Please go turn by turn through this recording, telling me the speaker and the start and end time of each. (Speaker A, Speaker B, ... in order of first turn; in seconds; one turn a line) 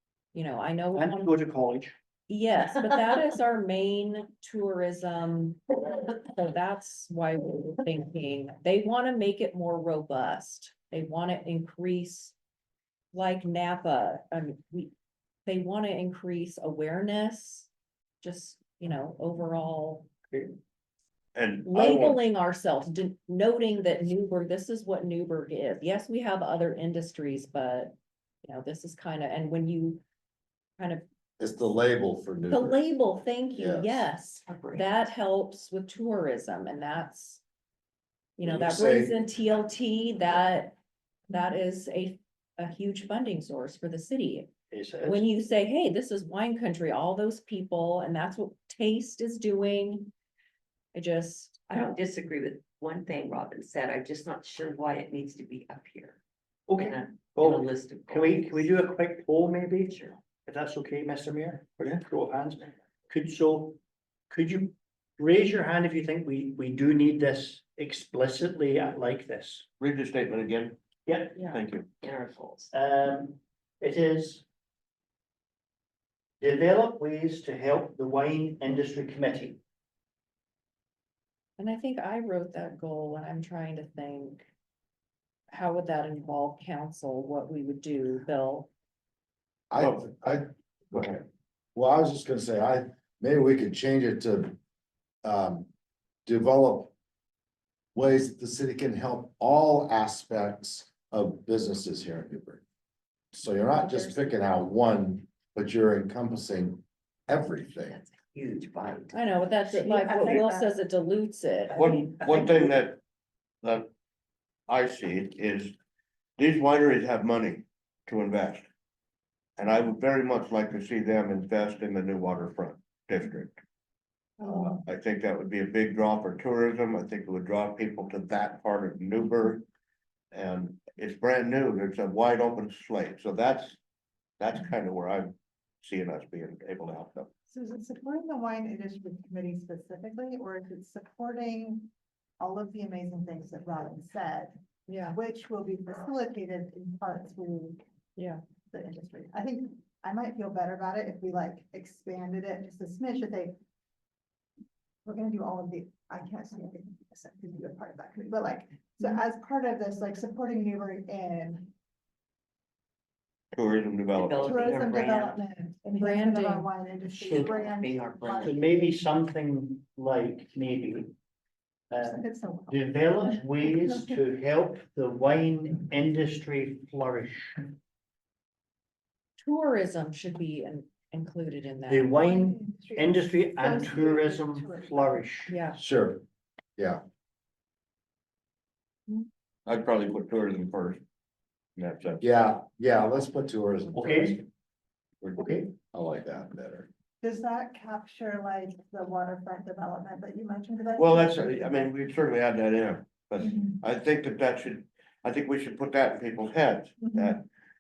Speaker A: 0.3-1.3
Speaker B: 0.9-1.9
Speaker A: 2.3-12.3
Speaker A: 13.1-14.9
Speaker A: 15.4-17.7
Speaker A: 18.2-20.1
Speaker B: 20.3-20.6
Speaker C: 21.3-22.2
Speaker A: 21.6-30.0
Speaker A: 30.8-31.0
Speaker D: 31.4-32.8
Speaker A: 32.5-37.4
Speaker D: 33.5-34.1
Speaker E: 34.5-34.9
Speaker A: 38.4-40.7
Speaker D: 38.4-39.2
Speaker A: 41.3-44.5
Speaker B: 44.7-45.2
Speaker A: 45.0-50.1
Speaker A: 50.9-51.8
Speaker E: 51.7-56.2
Speaker B: 56.7-63.8
Speaker E: 56.8-58.8
Speaker E: 59.9-60.2
Speaker B: 64.3-69.7
Speaker C: 69.8-70.8
Speaker B: 71.1-71.4
Speaker E: 71.4-72.7
Speaker C: 71.5-71.9
Speaker B: 72.7-74.4
Speaker B: 76.4-79.6
Speaker A: 81.6-84.5
Speaker A: 85.5-88.7
Speaker D: 89.7-91.1
Speaker C: 89.8-90.2
Speaker C: 90.9-91.2
Speaker D: 91.7-94.5
Speaker D: 95.2-95.7
Speaker D: 96.2-96.9
Speaker D: 97.9-102.6
Speaker D: 103.3-108.0
Speaker A: 103.8-104.2
Speaker E: 107.9-110.7
Speaker A: 109.1-111.8
Speaker C: 111.7-113.0
Speaker B: 111.8-112.7
Speaker C: 113.6-113.9
Speaker C: 114.7-115.7
Speaker C: 116.4-118.7
Speaker C: 119.6-123.5
Speaker C: 124.4-129.6
Speaker C: 130.3-133.8
Speaker C: 134.4-137.3
Speaker F: 137.5-144.5
Speaker A: 144.9-145.2
Speaker F: 145.1-147.8
Speaker F: 148.7-153.6
Speaker F: 155.0-161.7
Speaker C: 163.5-164.7
Speaker E: 164.1-165.4
Speaker F: 164.4-169.0
Speaker A: 165.9-166.7
Speaker E: 167.1-168.6
Speaker B: 168.4-171.1
Speaker B: 171.9-177.8
Speaker F: 172.0-172.8
Speaker A: 179.4-182.1
Speaker B: 181.9-185.5
Speaker F: 182.1-185.3
Speaker A: 185.5-185.8
Speaker D: 185.8-186.2
Speaker C: 189.7-191.0
Speaker C: 191.8-192.2
Speaker D: 192.2-194.4
Speaker B: 193.9-194.4
Speaker B: 195.3-195.7
Speaker D: 195.9-196.9
Speaker F: 197.2-201.9
Speaker C: 200.9-207.4
Speaker F: 203.4-203.8
Speaker F: 207.0-207.4